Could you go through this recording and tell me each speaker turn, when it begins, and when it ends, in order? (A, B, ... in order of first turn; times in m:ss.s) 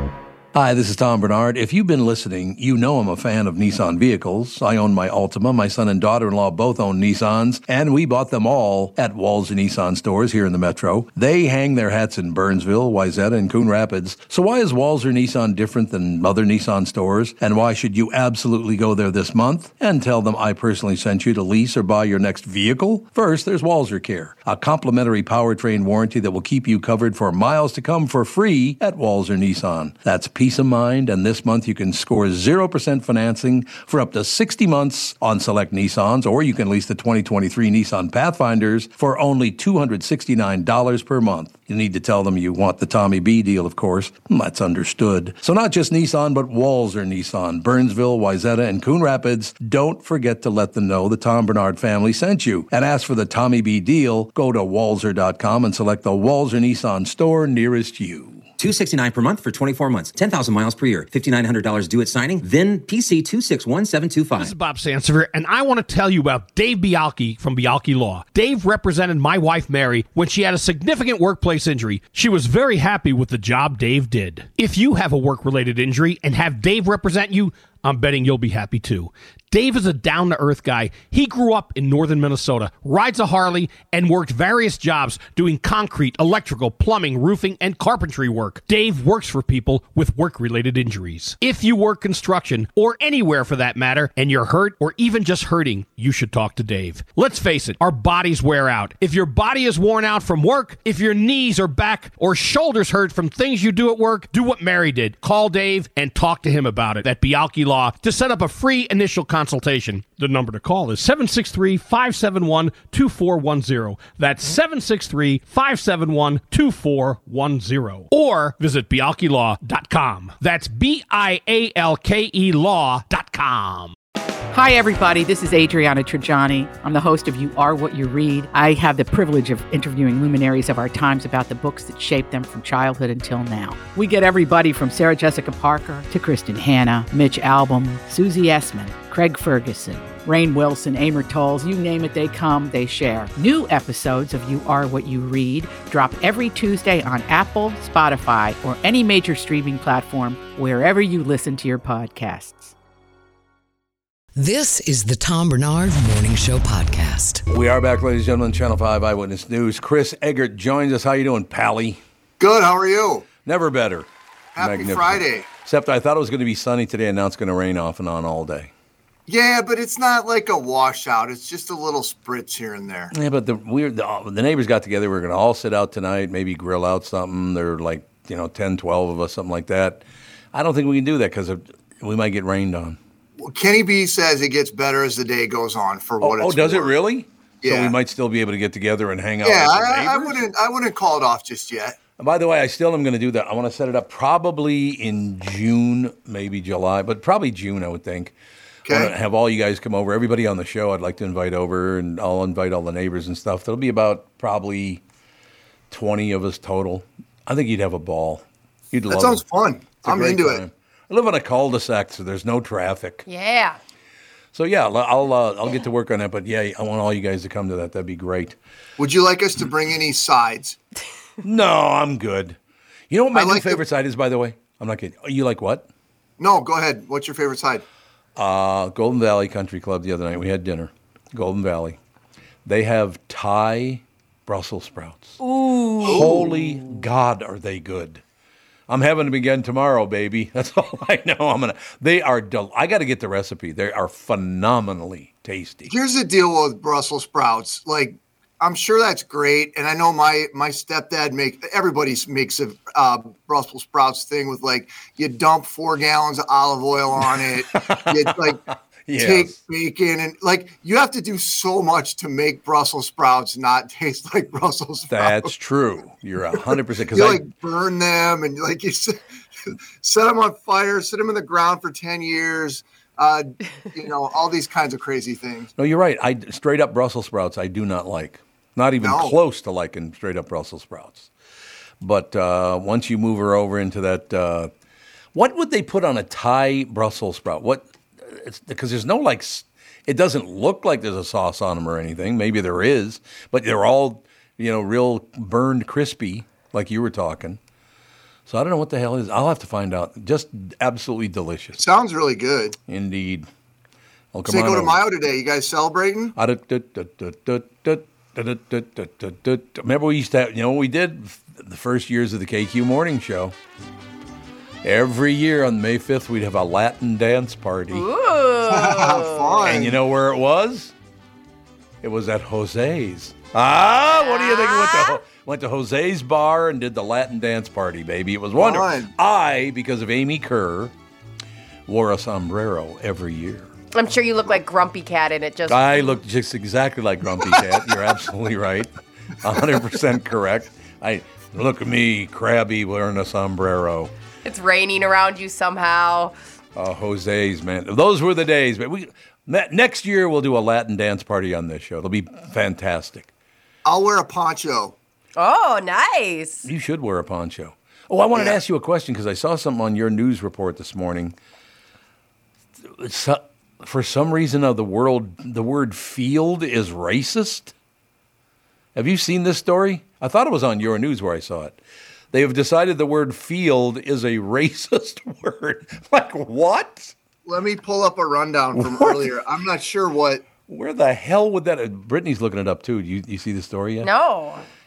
0:00.5-0:58.4 A
0:58.6-1:04.5 B
1:04.4-2:04.0 C
2:04.5-2:32.7 D
2:34.4-2:37.4 E
2:37.5-2:42.0 A
2:42.4-2:43.3 F
2:43.4-2:48.7 A
2:44.6-2:45.5 F
2:49.3-2:53.1 F
2:53.1-3:03.0 A
3:03.4-3:06.9 F
3:06.2-3:10.4 A
3:07.6-3:07.9 F
3:09.4-3:12.0 F
3:12.2-3:18.4 A
3:18.9-3:19.1 F
3:18.9-3:25.0 A
3:25.9-3:29.4 A
3:29.1-3:30.6 F
3:30.0-3:33.2 A
3:33.3-3:33.8 G
3:34.5-3:38.6 A
3:39.0-3:40.8 F
3:41.4-3:42.6 A
3:43.1-3:45.9 A
3:43.3-3:43.8 F
3:46.4-3:47.8 F
3:48.4-3:52.0 A
3:52.6-3:55.4 A
3:55.4-3:56.5 G
3:56.0-3:58.2 A
3:56.1-3:56.6 F
3:58.9-4:05.9 A
4:05.9-4:18.6 F
4:17.8-4:19.6 A
4:19.2-4:25.5 F
4:25.1-4:27.4 A
4:26.6-4:35.7 F
4:35.8-4:41.3 A
4:39.0-4:39.4 F
4:42.0-4:44.7 A
4:45.3-4:57.6 A
4:58.5-5:01.8 A
5:01.8-5:02.8 F
5:02.9-5:03.5 A
5:04.3-5:05.0 A
5:04.5-5:06.4 F
5:06.4-5:13.6 A
5:14.8-5:18.1 A
5:17.9-5:19.7 G
5:18.7-5:20.0 F
5:19.6-5:20.9 A
5:22.0-5:30.9 A
5:24.1-5:25.2 G
5:28.6-5:29.1 F
5:31.9-5:33.7 A
5:33.9-5:36.2 G
5:35.7-5:44.1 A
5:44.4-5:46.3 G
5:46.8-5:53.3 A
5:53.8-5:55.0 F
5:55.4-5:56.7 G
5:56.6-6:01.4 A
6:02.8-6:07.7 A
6:09.0-6:11.8 A
6:12.3-6:17.1 A
6:17.5-6:20.5 F
6:18.7-6:19.4 A
6:20.7-6:24.1 A
6:24.0-6:24.6 G